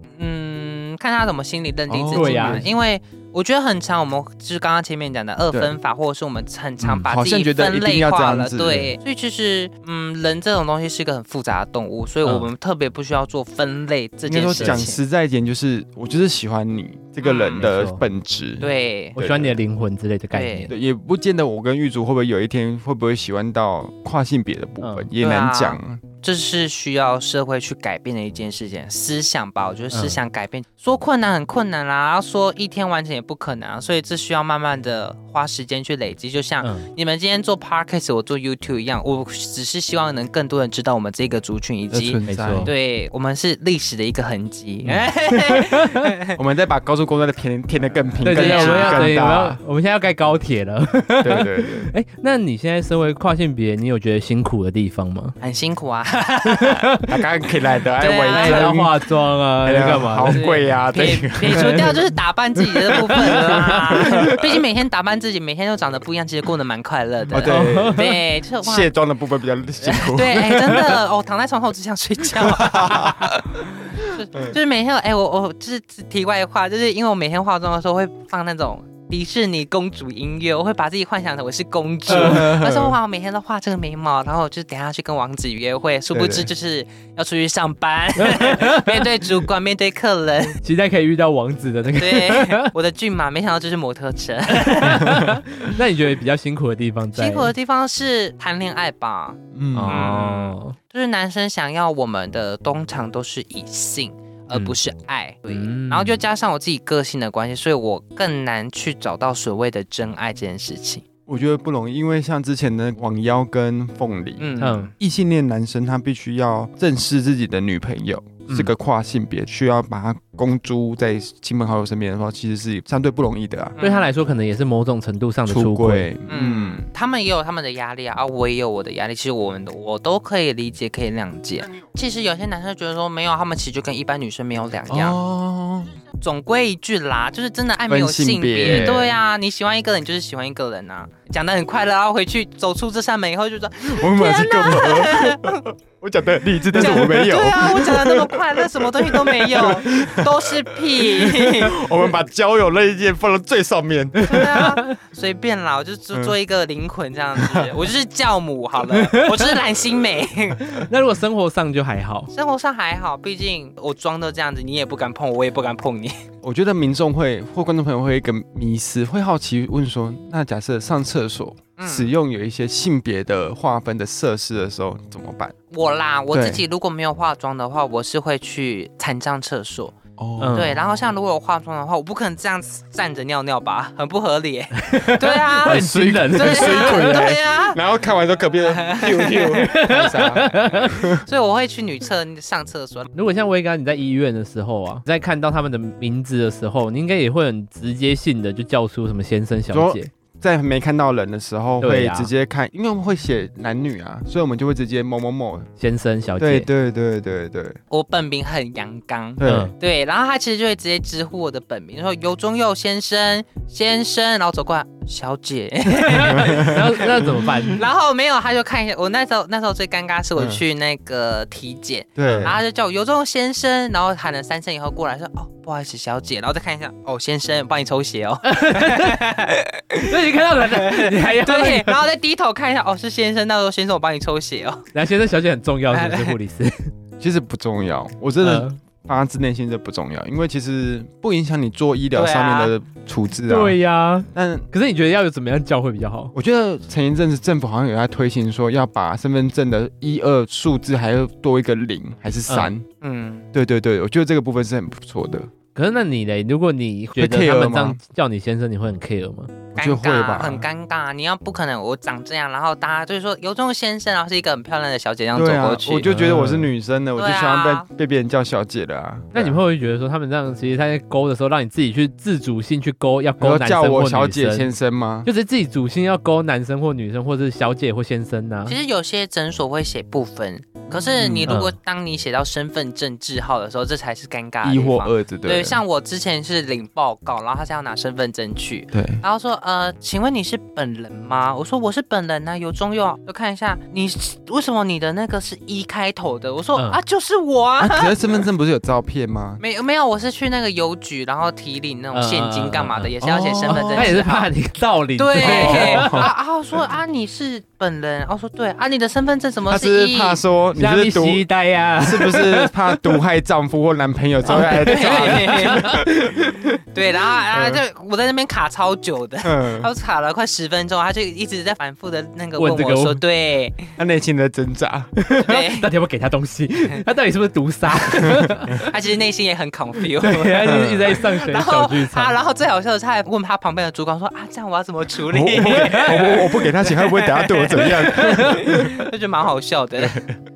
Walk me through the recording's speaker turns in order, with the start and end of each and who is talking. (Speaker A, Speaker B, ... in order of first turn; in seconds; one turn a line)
Speaker A: 0.2-15.0
Speaker B: 1.9-2.7
Speaker C: 2.1-2.7
Speaker C: 6.8-7.1
Speaker B: 7.1-8.9
Speaker B: 14.3-19.6
Speaker C: 14.6-14.8
Speaker A: 17.2-17.7
Speaker C: 17.6-18.0
Speaker A: 18.6-19.2
Speaker C: 19.2-20.7
Speaker A: 20.3-20.7
Speaker B: 20.7-26.0
Speaker C: 24.8-25.1
Speaker A: 25.2-46.4
Speaker C: 29.9-30.2
Speaker C: 36.6-36.9
Speaker B: 41.9-42.7
Speaker C: 42.3-42.7
Speaker C: 44.9-46.0
Speaker B: 46.4-49.6
Speaker C: 48.2-55.4
Speaker A: 48.2-49.1
Speaker B: 51.2-51.9
Speaker A: 55.4-56.9
Speaker C: 56.5-57.2
Speaker B: 57.1-61.9
Speaker A: 58.0-58.7
Speaker C: 58.3-60.4
Speaker A: 60.3-68.9
Speaker C: 61.5-64.4
Speaker B: 63.3-64.5
Speaker B: 67.3-68.1
Speaker C: 67.4-68.1
Speaker B: 68.6-71.0
Speaker A: 69.9-90.6
Speaker B: 72.3-74.6
Speaker B: 82.1-83.0
Speaker C: 82.1-82.5
Speaker B: 86.1-86.5
Speaker C: 88.2-89.0
Speaker C: 90.6-92.7
Speaker A: 92.0-95.3
Speaker C: 94.5-97.5
Speaker A: 97.1-111.0
Speaker B: 99.5-100.1
Speaker C: 99.7-100.8
Speaker C: 105.5-106.2
Speaker B: 111.3-114.5
Speaker A: 114.4-114.9
Speaker C: 114.6-114.9
Speaker B: 115.0-123.8
Speaker A: 123.8-124.1
Speaker C: 123.8-126.1
Speaker B: 125.5-126.8
Speaker A: 126.3-135.2
Speaker B: 134.9-135.9
Speaker A: 136.2-145.6
Speaker B: 137.9-139.1
Speaker B: 143.8-154.6
Speaker A: 146.7-151.8
Speaker C: 154.2-154.9
Speaker A: 154.2-160.8
Speaker B: 157.4-157.7
Speaker C: 158.9-159.6
Speaker C: 160.8-162.3
Speaker A: 162.3-166.2
Speaker B: 166.4-175.6
Speaker A: 171.8-172.1
Speaker A: 175.7-180.0
Speaker B: 176.3-176.6
Speaker B: 180.2-180.7
Speaker C: 180.4-180.7
Speaker A: 180.5-187.8
Speaker C: 184.8-187.3
Speaker B: 185.6-191.2
Speaker A: 188.7-189.8
Speaker C: 189.6-191.0
Speaker A: 190.9-193.1
Speaker C: 193.1-200.1
Speaker B: 199.7-205.7
Speaker C: 201.8-202.3
Speaker C: 205.8-206.7
Speaker B: 206.4-207.8
Speaker A: 207.9-230.1
Speaker B: 209.4-209.7
Speaker C: 209.4-209.7
Speaker C: 215.9-217.8
Speaker B: 216.3-217.4
Speaker B: 222.2-222.6
Speaker C: 222.3-222.5
Speaker C: 228.4-229.4
Speaker C: 230.0-232.0
Speaker A: 230.7-234.9
Speaker C: 234.9-236.9
Speaker A: 235.9-236.3
Speaker B: 237.2-243.8
Speaker C: 238.4-238.8
Speaker A: 242.1-242.7
Speaker C: 243.5-246.3
Speaker B: 244.3-244.7
Speaker B: 246.3-252.9
Speaker A: 253.0-253.4
Speaker B: 253.5-255.5
Speaker C: 255.7-259.6
Speaker B: 257.2-258.0
Speaker B: 259.7-260.7
Speaker A: 259.8-266.1
Speaker B: 265.3-269.6
Speaker C: 266.0-266.7
Speaker A: 267.2-267.9
Speaker C: 269.3-274.7
Speaker B: 273.4-275.3
Speaker C: 275.2-278.8
Speaker A: 278.7-298.1
Speaker B: 280.9-281.5
Speaker C: 281.5-281.7
Speaker B: 284.6-285.8
Speaker B: 288.9-289.2
Speaker B: 297.8-299.6
Speaker A: 299.6-304.5
Speaker C: 302.1-303.1
Speaker B: 303.2-304.4
Speaker C: 303.7-306.3
Speaker A: 305.2-310.4
Speaker B: 305.4-306.3
Speaker B: 309.7-311.4
Speaker C: 310.7-313.2
Speaker B: 312.0-316.8
Speaker C: 314.4-316.1
Speaker A: 314.5-316.0
Speaker A: 316.9-323.9
Speaker B: 317.3-317.8
Speaker B: 319.4-319.9
Speaker C: 322.6-323.2
Speaker B: 324.0-325.1
Speaker C: 325.2-328.9
Speaker A: 325.4-325.9
Speaker B: 328.1-328.8
Speaker A: 328.8-340.2
Speaker C: 330.2-332.4
Speaker B: 330.6-331.2
Speaker B: 335.3-338.9
Speaker C: 335.7-336.4
Speaker C: 337.8-338.9
Speaker B: 340.0-340.3